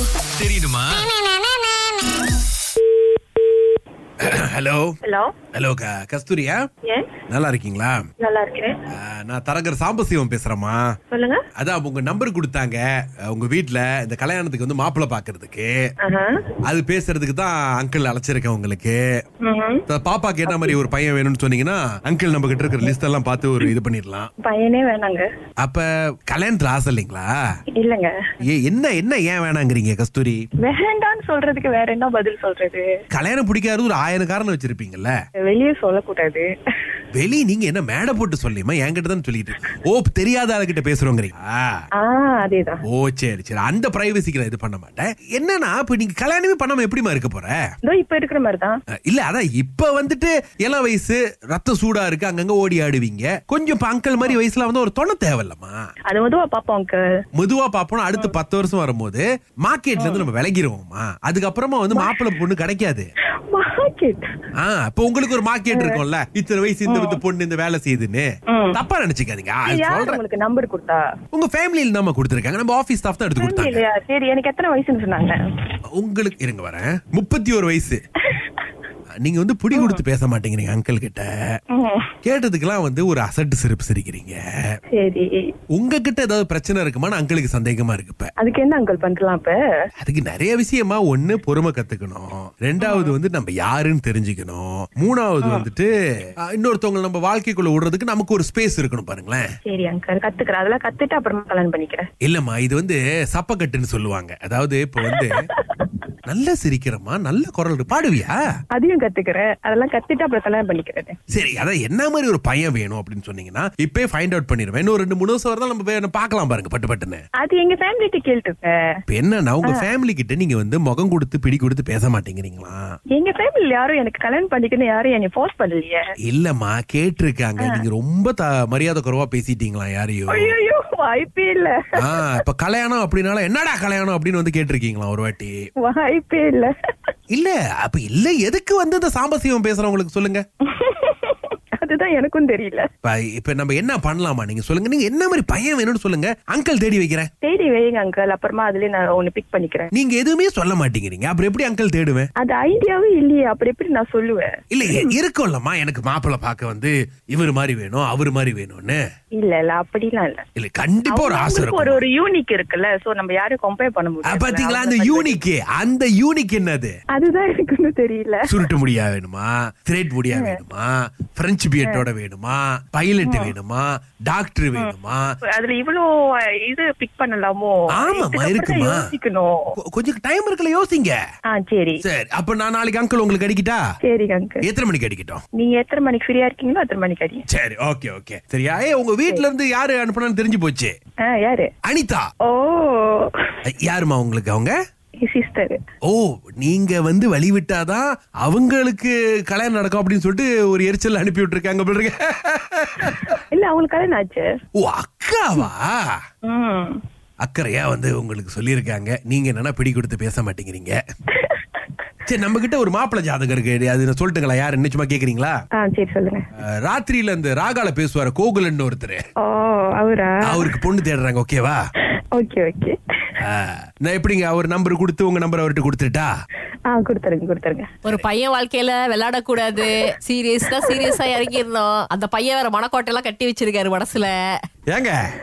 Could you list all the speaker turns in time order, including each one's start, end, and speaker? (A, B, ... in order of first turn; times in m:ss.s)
0:00.2-0:01.1 A
0:04.2-0:05.0 A
0:05.0-0:05.3 B
0:05.5-0:06.6 A
0:06.9-0:07.1 B
0:07.3-0:08.0 A
0:08.2-0:08.8 B
0:08.9-0:10.9 A
0:11.1-0:11.4 B
0:11.6-0:15.7 A
0:16.0-0:16.4 B
0:16.7-0:19.0 A
0:19.4-0:19.8 B
0:19.9-0:24.3 A
0:20.5-0:20.8 B
0:24.4-0:25.3 B
0:25.6-0:27.3 A
0:27.8-0:28.1 B
0:28.4-0:30.4 A
0:30.6-0:32.9 B
0:33.1-0:35.2 A
0:35.4-0:36.5 B
0:37.2-0:41.8 A
0:42.0-0:42.8 B
0:42.9-0:47.6 A
0:47.8-0:48.8 B
0:49.1-0:55.8 A
0:56.1-0:57.0 B
0:57.4-1:03.1 A
1:00.0-1:00.2 B
1:01.9-1:02.2 B
1:03.5-1:04.2 B
1:04.6-1:10.2 A
1:05.7-1:06.0 B
1:06.9-1:07.2 B
1:08.5-1:08.8 B
1:09.7-1:11.0 B
1:11.3-1:13.8 A
1:13.4-1:15.4 B
1:16.0-1:18.0 A
1:19.2-1:21.3 A
1:19.7-1:20.0 B
1:21.7-1:22.1 B
1:22.2-1:24.4 A
1:24.9-1:25.4 B
1:25.7-1:28.3 A
1:28.4-1:29.6 B
1:30.0-1:35.9 A
1:32.8-1:33.2 B
1:36.4-1:39.4 A
1:39.6-1:42.1 B
1:42.2-1:45.4 A
1:45.0-1:46.0 B
1:46.3-1:48.4 A
1:48.7-1:51.2 B
1:51.3-1:57.2 A
1:57.4-1:58.9 B
1:59.1-2:02.8 A
1:59.6-1:59.9 B
2:03.2-2:06.0 B
2:06.2-2:10.5 A
2:10.3-2:12.3 B
2:12.0-2:15.5 A
2:15.8-2:16.7 B
2:17.3-2:20.4 A
2:20.7-2:22.9 B
2:23.0-2:27.3 A
2:27.4-2:29.9 B
2:29.9-2:32.3 A
2:32.4-2:35.1 B
2:34.7-2:39.0 A
2:39.4-2:40.4 B
2:40.6-2:42.0 A
2:41.1-2:45.4 B
2:44.2-2:47.0 A
2:47.1-2:48.5 B
2:48.5-2:55.3 A
2:50.3-2:50.6 B
2:53.2-2:53.5 B
2:55.5-2:59.7 B
2:58.0-2:59.1 A
2:59.8-3:01.2 A
3:01.5-3:02.0 B
3:02.0-3:03.8 A
3:04.0-3:04.6 B
3:04.6-3:05.4 A
3:05.6-3:07.5 B
3:07.5-3:10.9 A
3:11.2-3:11.7 B
3:11.8-3:12.3 A
3:12.4-3:13.3 B
3:13.7-3:14.8 A
3:15.2-3:15.8 B
3:16.0-3:23.4 A
3:23.5-3:24.5 B
3:24.8-3:26.2 A
3:26.4-3:27.0 B
3:27.4-3:31.0 A
3:32.3-3:35.6 A
3:35.8-3:36.4 B
3:36.8-3:39.2 A
3:39.4-3:40.7 B
3:40.5-3:41.8 A
3:42.4-3:43.0 B
3:43.4-3:46.3 A
3:46.9-3:47.9 B
3:48.0-3:54.4 C
3:54.9-3:55.2 A